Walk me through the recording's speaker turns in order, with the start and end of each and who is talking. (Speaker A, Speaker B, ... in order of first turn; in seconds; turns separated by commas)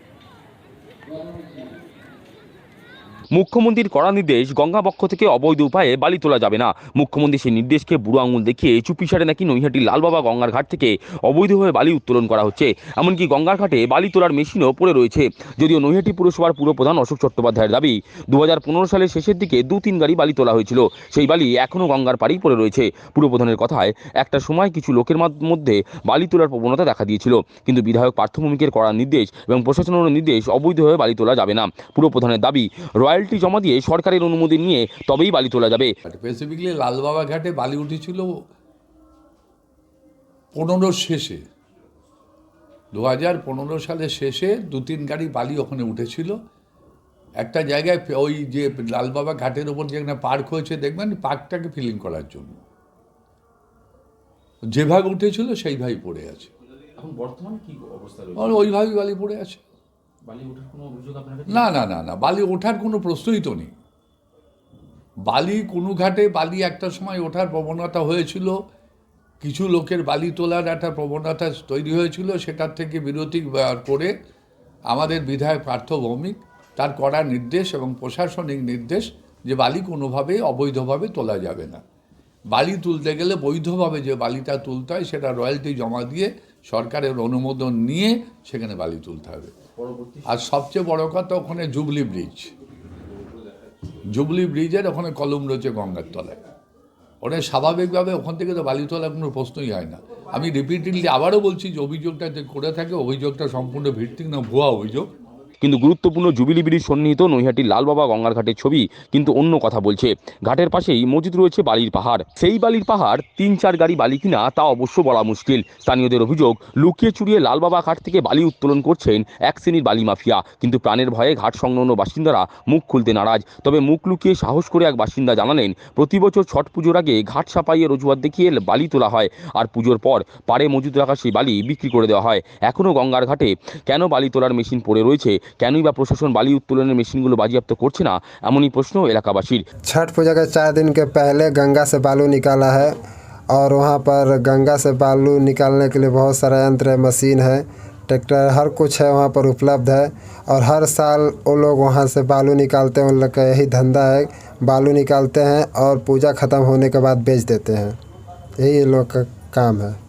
Speaker A: 3.3-35.9, Speaker B: 36.0-38.3, Speaker B: 40.5-41.4, Speaker B: 42.9-46.3, Speaker B: 47.4-52.6, Speaker B: 54.7-56.5, Speaker A: 57.0-58.7, Speaker B: 58.4-59.6, Speaker A: 60.2-61.7, Speaker B: 61.5-63.7, Speaker B: 65.3-68.5, Speaker B: 69.4-74.1, Speaker B: 74.9-81.8, Speaker B: 82.5-89.5, Speaker A: 89.8-90.5, Speaker B: 90.3-92.5, Speaker B: 94.1-96.4, Speaker B: 97.2-105.1, Speaker A: 105.6-139.6, Speaker C: 139.9-142.9, Speaker C: 143.5-157.9, Speaker C: 158.6-159.9